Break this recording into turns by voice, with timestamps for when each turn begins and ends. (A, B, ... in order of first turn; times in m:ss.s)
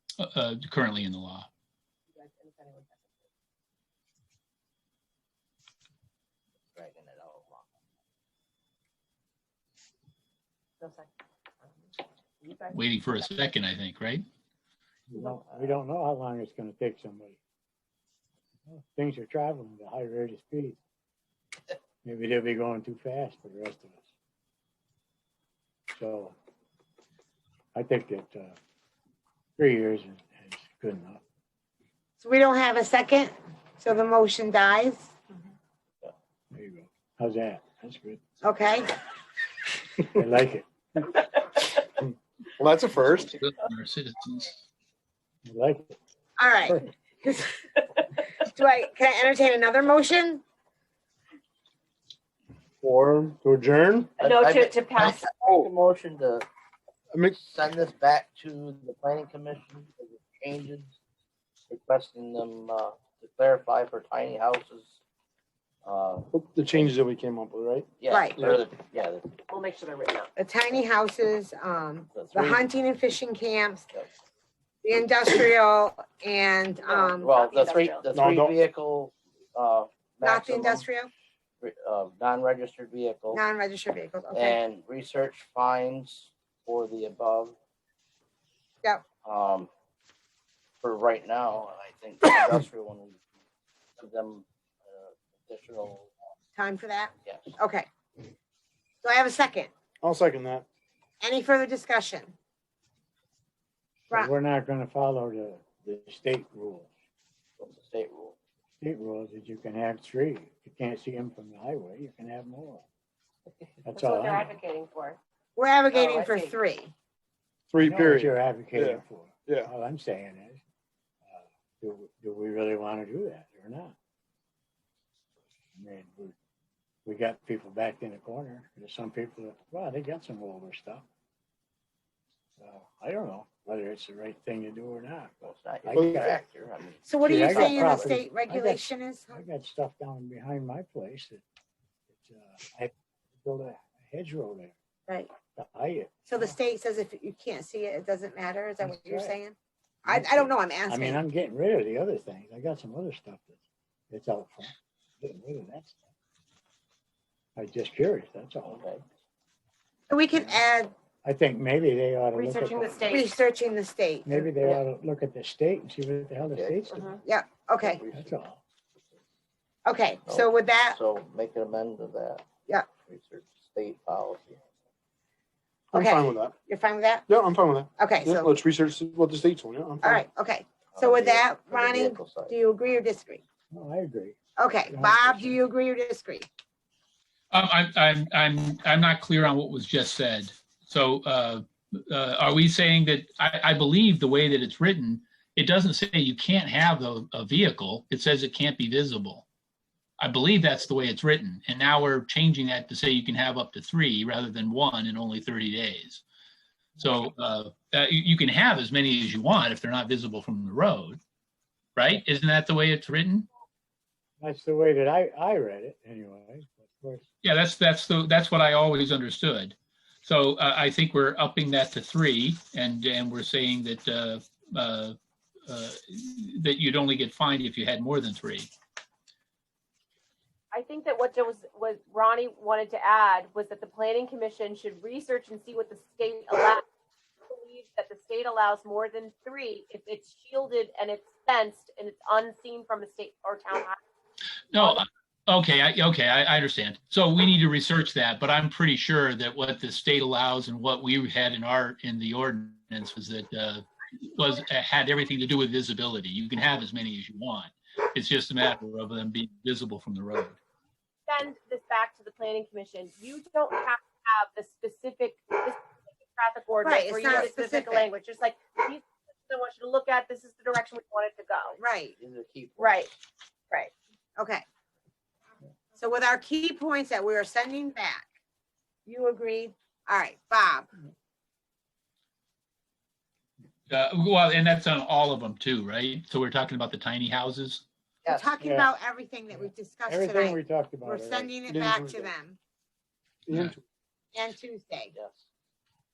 0:00.2-0:01.5 A
0:02.1-0:03.3 B
0:06.7-0:07.7 C
0:10.8-0:11.1 B
0:12.4-0:12.8 B
0:12.7-0:14.2 A
0:15.1-0:17.4 D
0:15.3-0:15.8 C
0:18.7-0:20.8 D
0:22.0-0:24.0 D
0:25.9-0:26.3 D
0:27.8-0:28.6 D
0:29.6-0:31.2 D
0:32.2-0:35.1 E
0:36.5-0:38.2 D
0:38.4-0:38.9 E
0:40.0-0:40.7 D
0:42.0-0:43.4 F
0:43.2-0:44.6 A
0:45.4-0:46.0 D
0:46.4-0:47.6 E
0:46.6-0:46.9 D
0:48.4-0:50.4 E
0:52.8-0:54.2 F
0:54.2-0:55.2 B
0:54.2-0:56.5 C
0:55.5-0:55.7 F
0:57.1-0:57.4 F
0:57.4-1:01.0 C
1:01.7-1:05.0 C
1:05.8-1:07.0 C
1:06.3-1:08.6 F
1:08.0-1:09.4 C
1:08.1-1:08.4 E
1:09.5-1:10.3 B
1:10.4-1:13.9 E
1:12.1-1:12.7 C
1:14.8-1:17.3 E
1:16.8-1:18.0 B
1:16.9-1:20.8 C
1:18.1-1:18.6 F
1:20.2-1:21.1 E
1:21.6-1:23.4 C
1:23.3-1:24.6 E
1:24.3-1:27.6 C
1:29.2-1:29.7 C
1:30.8-1:33.2 C
1:34.0-1:36.1 C
1:36.6-1:37.9 E
1:37.2-1:37.6 C
1:39.0-1:39.7 E
1:40.0-1:40.7 F
1:41.2-1:42.4 E
1:44.1-1:46.9 D
1:47.6-1:48.4 C
1:48.8-1:52.8 D
1:53.8-1:54.5 D
1:53.9-1:55.2 B
1:55.6-1:56.9 E
1:55.9-1:56.6 B
1:57.7-1:59.7 F
1:57.8-2:00.6 D
2:01.3-2:04.0 D
2:05.8-2:06.4 D
2:07.0-2:11.0 D
2:12.6-2:16.4 D
2:15.4-2:18.3 C
2:16.0-2:16.2 F
2:17.0-2:19.4 E
2:17.2-2:21.4 D
2:22.1-2:24.7 D
2:25.6-2:26.5 D
2:26.3-2:31.2 E
2:28.8-2:29.4 D
2:30.1-2:33.6 D
2:34.1-2:36.0 D
2:37.6-2:38.8 D
2:38.7-2:39.0 C
2:40.1-2:40.9 E
2:41.2-2:43.1 D
2:42.3-2:43.3 B
2:43.1-2:44.4 E
2:44.3-2:47.0 D
2:46.5-2:47.2 C
2:46.9-2:47.2 B
2:47.2-2:48.0 E
2:47.8-2:48.3 C
2:48.1-2:48.6 D
2:49.8-2:51.0 E
2:50.2-2:54.6 C
2:55.9-2:56.6 F
2:55.9-2:57.3 E
2:57.3-3:00.2 F
2:58.0-2:58.5 E
3:00.0-3:03.4 E
3:00.9-3:02.6 C
3:03.7-3:04.4 D
3:04.6-3:06.5 E
3:04.9-3:05.6 D
3:07.5-3:19.5 A
3:20.2-3:26.2 A
3:27.0-3:31.2 A
3:32.0-3:33.5 A
3:34.4-3:37.3 D
3:37.4-3:48.7 A
3:50.7-3:56.8 B
3:57.5-4:04.0 B
4:04.7-4:20.6 A
4:04.7-4:05.0 B
4:21.3-4:31.8 B
4:26.8-4:28.1 E
4:31.8-4:32.2 E
4:32.2-4:33.0 C
4:32.8-4:33.1 B
4:34.4-4:34.6 E
4:36.0-4:38.3 E
4:39.1-4:40.9 E
4:43.9-4:47.8 A
4:48.2-4:52.6 E
4:48.6-4:48.9 D
4:49.5-4:51.5 D
4:51.7-4:52.3 F
4:53.5-4:53.8 F
4:53.5-4:53.8 A
4:54.3-4:55.1 E
4:55.1-4:55.5 C